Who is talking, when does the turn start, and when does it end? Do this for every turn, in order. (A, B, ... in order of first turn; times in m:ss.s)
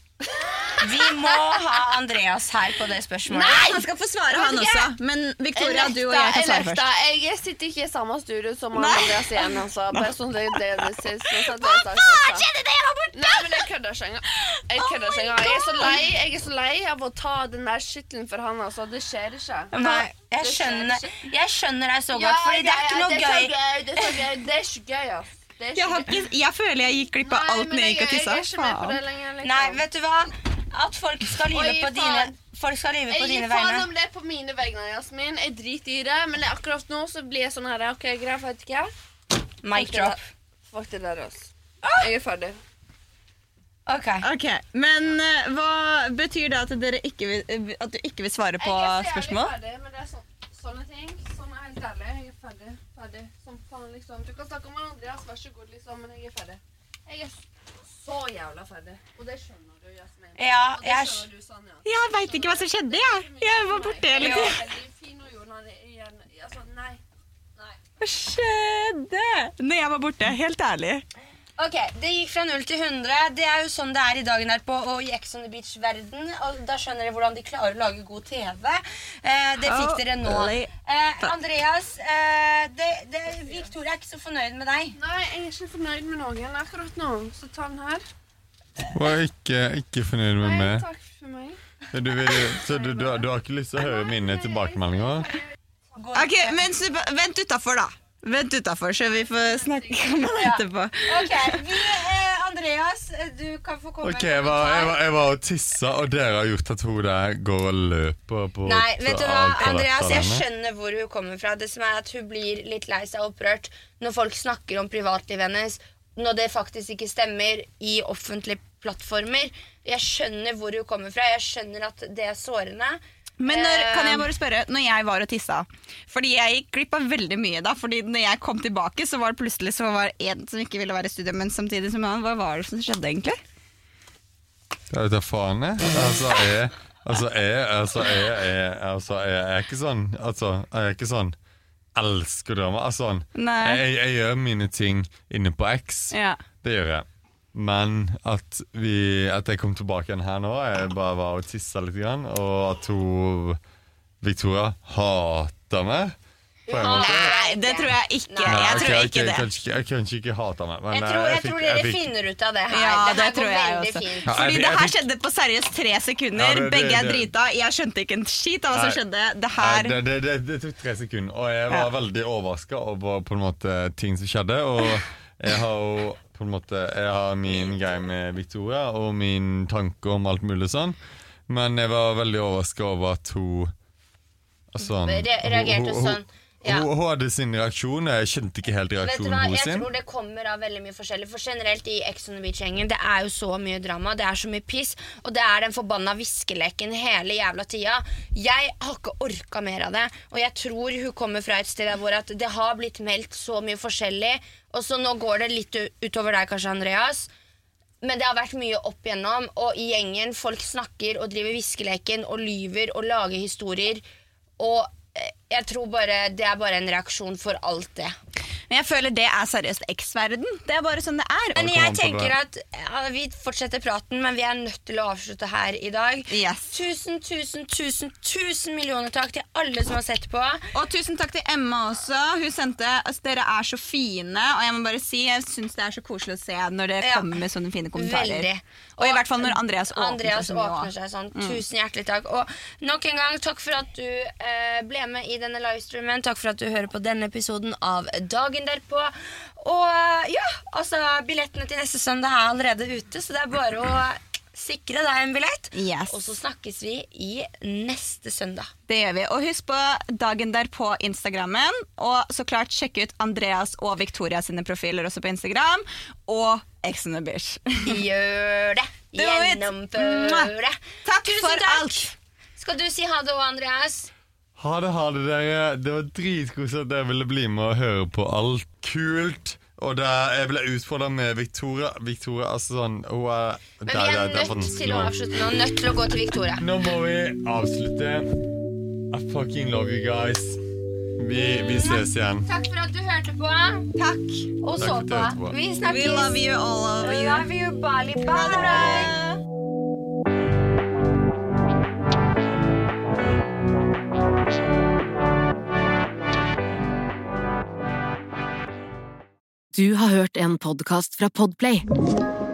0:00.8-0:03.8 A
0:03.3-0:06.9 B
0:04.4-0:04.8 C
0:05.6-0:12.4 C
0:08.7-0:10.1 B
0:10.8-0:13.4 B
0:13.1-0:21.2 C
0:15.1-0:15.8 A
0:15.6-0:16.0 B
0:19.7-0:24.1 A
0:22.1-0:26.2 C
0:25.8-0:29.0 B
0:27.2-0:29.8 C
0:29.4-0:33.9 A
0:31.5-0:32.4 C
0:33.1-0:38.9 C
0:39.6-0:40.2 A
0:39.7-0:42.6 C
0:41.8-0:42.1 A
0:43.9-0:44.3 A
0:44.2-0:49.5 B
0:48.6-1:07.0 C
1:00.4-1:01.3 A
1:01.8-1:04.6 B
1:04.2-1:04.6 A
1:08.0-1:11.0 B
1:11.6-1:25.0 A
1:19.7-1:21.3 B
1:25.0-1:28.0 C
1:28.9-1:30.9 D
1:30.4-1:31.6 C
1:31.9-1:35.4 D
1:36.0-1:36.6 A
1:36.2-1:41.7 B
1:39.6-1:40.3 C
1:40.4-1:45.0 A
1:44.0-1:50.4 D
1:48.6-2:04.3 A
2:03.4-2:13.4 B
2:14.9-2:21.4 D
2:22.0-2:33.6 D
2:23.4-2:23.8 B
2:26.1-2:26.4 B
2:34.2-2:36.2 D
2:36.7-2:39.0 A
2:36.7-2:37.4 D
2:36.8-2:39.5 B
2:38.5-2:42.1 D
2:40.9-2:44.4 A
2:42.7-2:50.0 B
2:44.3-2:45.0 D
2:46.4-2:47.3 D
2:48.7-2:49.0 D
2:49.6-3:01.0 D
3:01.5-3:03.7 D
3:04.7-3:09.9 D
3:04.8-3:06.9 A
3:09.0-3:27.3 A
3:28.0-3:34.0 A
3:34.6-3:38.2 A
3:38.7-3:41.6 B
3:41.6-3:42.4 D
3:41.6-3:50.7 A
3:46.3-3:46.7 B
3:50.7-4:01.6 B
3:57.0-3:57.3 A
3:57.9-4:18.7 A
4:15.7-4:16.2 B
4:18.9-4:28.0 B
4:27.8-4:34.1 A
4:29.2-4:30.5 B
4:31.0-4:32.1 B
4:34.6-4:45.2 D
4:43.9-4:46.6 A
4:46.6-4:48.3 D
4:49.1-4:50.6 D
4:51.2-4:52.5 D
4:51.4-4:53.9 A
4:54.0-4:54.5 B
4:54.6-4:56.4 A
4:54.8-4:55.6 D
4:55.8-4:57.5 B
4:57.0-4:59.2 A
4:58.3-4:59.4 B
5:09.7-5:11.8 E